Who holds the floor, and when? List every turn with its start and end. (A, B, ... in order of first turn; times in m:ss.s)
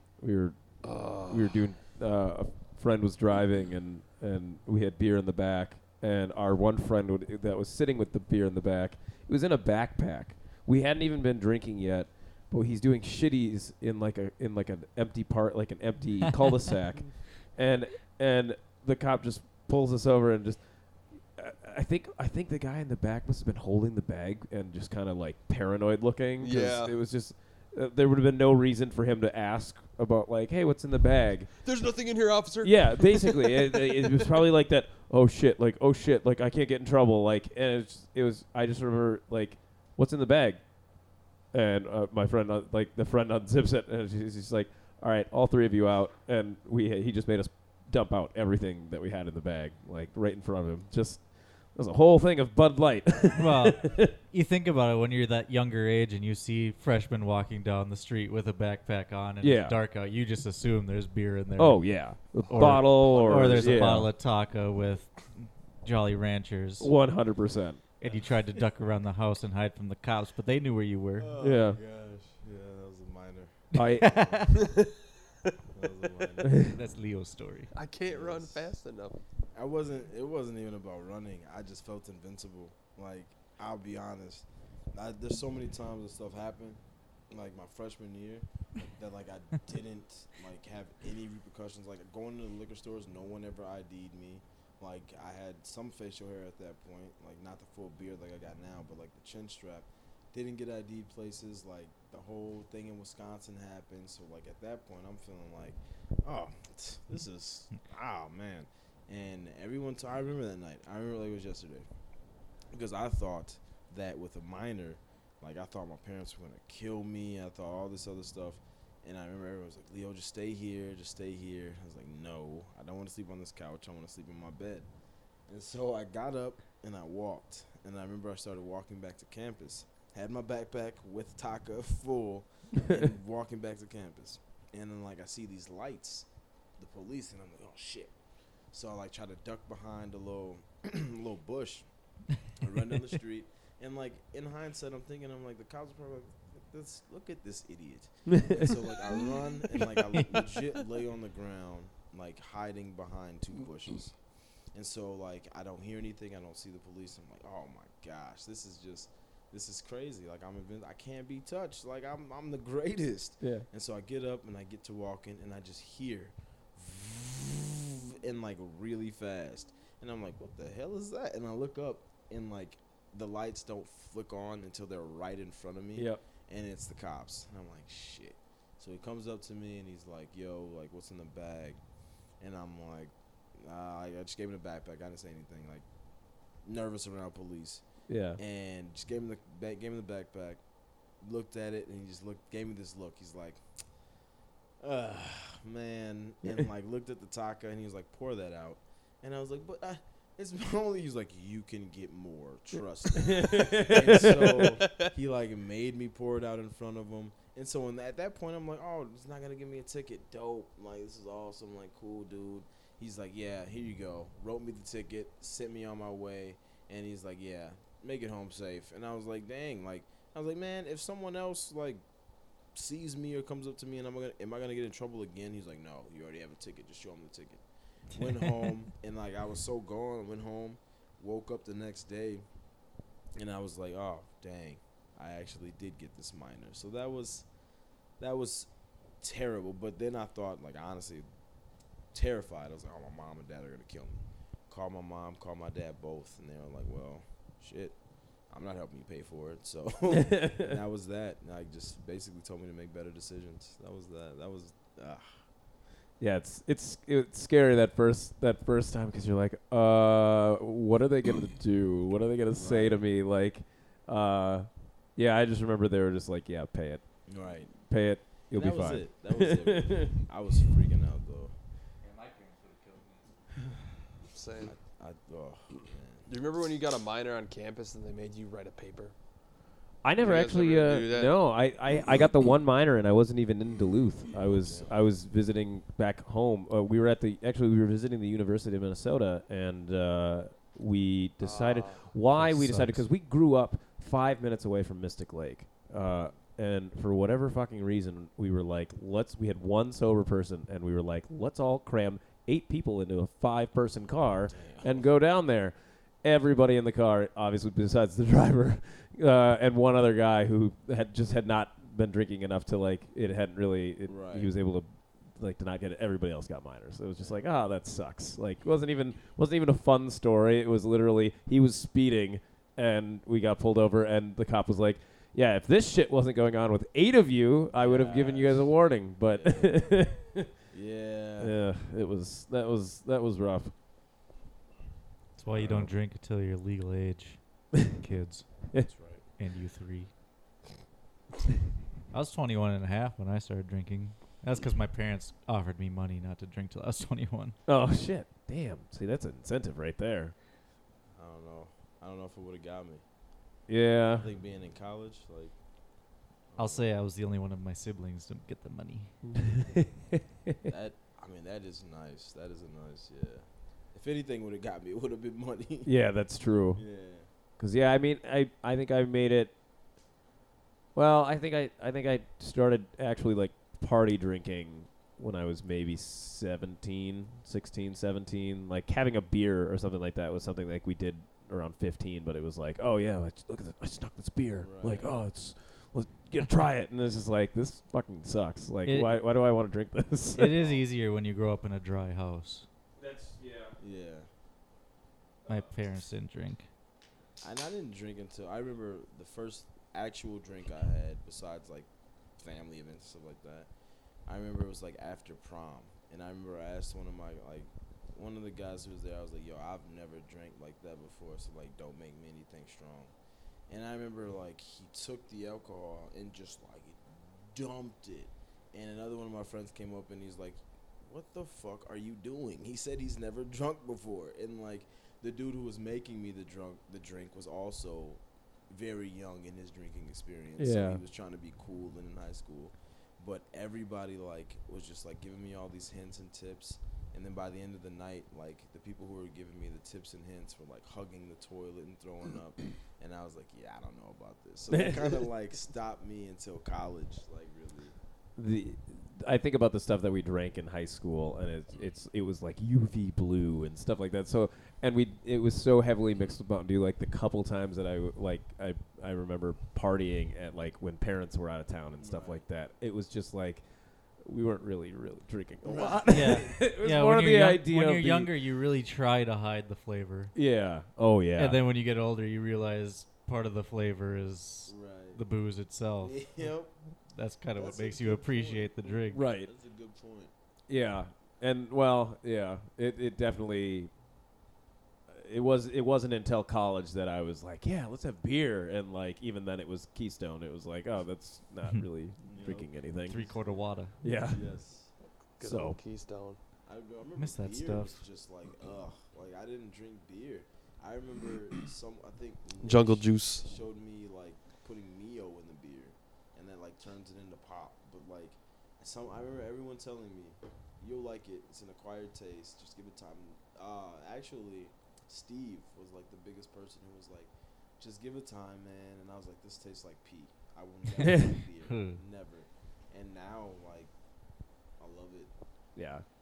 0:00.2-0:20.7 A
0:00.8-0:01.6 B
0:21.3-0:31.5 A
0:26.4-0:26.9 B
0:31.6-0:34.4 B
0:32.6-0:40.6 A
0:41.5-0:54.1 A
0:53.3-1:06.9 C
0:59.4-0:59.8 A
1:01.6-1:04.1 A
1:03.2-1:03.8 D
1:06.8-1:07.8 A
1:08.0-1:11.3 C
1:11.2-1:14.6 D
1:11.4-1:11.8 A
1:13.7-1:14.5 C
1:13.7-1:14.4 A
1:14.5-1:15.5 B
1:15.7-1:16.7 D
1:16.4-1:16.7 A
1:16.6-1:17.7 C
1:17.7-1:19.2 B
1:18.1-1:18.6 D
1:19.5-1:51.9 D
1:52.7-2:04.9 D
2:05.5-2:16.2 D
2:16.8-2:18.1 D
2:18.7-2:21.9 D
2:22.5-2:34.2 D
2:28.3-2:28.7 A
2:34.7-3:01.8 D
2:43.4-2:43.7 A
2:56.0-2:56.2 A
3:02.4-3:05.8 D
3:06.6-3:07.8 D
3:08.1-3:08.4 A
3:08.4-3:10.6 D
3:11.2-3:13.6 D
3:14.8-3:42.0 D
3:23.1-3:24.7 A
3:42.7-3:47.6 D
3:48.1-3:52.4 D
3:53.4-3:57.5 D
3:58.2-3:58.7 D
3:59.2-4:01.3 D
4:02.1-4:15.3 D
4:10.1-4:10.8 A
4:16.2-4:27.0 A
4:22.5-4:23.1 D
4:27.3-4:27.7 D
4:27.7-4:30.1 A
4:28.5-4:31.5 D
4:32.0-4:33.3 C
4:34.3-4:34.7 B
4:34.7-4:36.3 D
4:36.3-4:39.1 B
4:40.0-5:30.5 A
4:40.2-4:41.3 B
4:44.6-4:44.9 B
4:51.4-4:52.1 B
4:52.3-4:53.0 C
5:04.5-5:05.1 D
5:14.1-5:14.5 D
5:27.8-5:30.0 D
5:30.7-5:31.6 D
5:31.4-5:33.7 A
5:35.4-5:38.5 C
5:35.6-5:35.9 A
5:38.9-5:39.2 D
5:39.4-5:40.1 C
5:42.1-5:47.6 C
5:47.7-5:50.3 A
5:51.2-5:53.0 D
5:53.7-5:54.2 A
5:54.1-5:55.5 D
5:56.5-5:56.9 D
5:56.6-5:59.1 C
5:59.3-6:00.6 A
6:00.6-6:05.9 D
6:05.8-6:06.8 A
6:06.7-6:07.3 D
6:07.6-6:09.5 A
6:11.0-6:30.5 A
6:24.6-6:25.1 D
6:28.8-6:29.2 C
6:30.3-6:32.7 C
6:30.4-6:30.9 D
6:33.0-6:33.8 A
6:33.8-6:34.3 D
6:35.5-6:36.7 C
6:37.4-6:41.9 D
6:42.4-6:43.7 D
6:44.2-6:53.1 D
6:53.7-7:28.0 D
7:10.6-7:11.0 A
7:24.7-7:25.2 A
7:28.4-7:43.6 A
7:42.0-7:42.4 D
7:44.2-7:48.3 A
7:45.6-7:46.5 D
7:46.1-7:50.3 C
7:50.3-7:51.6 A
7:51.4-7:56.2 C
7:54.7-7:55.2 D
7:56.0-7:56.7 D
7:57.1-7:59.2 C
7:57.5-8:00.3 D
7:59.1-7:59.5 A
8:00.7-8:03.9 A
8:05.1-8:13.2 A
8:12.3-8:13.4 D
8:13.1-8:14.0 C
8:14.0-8:14.4 A
8:14.3-8:14.9 D
8:15.4-8:16.4 B
8:15.4-8:15.8 A
8:16.7-8:43.9 D
8:17.2-8:18.0 C
8:22.6-8:23.4 B
8:41.0-8:41.3 A
8:41.0-8:42.0 C
8:44.8-8:45.3 D
8:45.8-8:46.0 A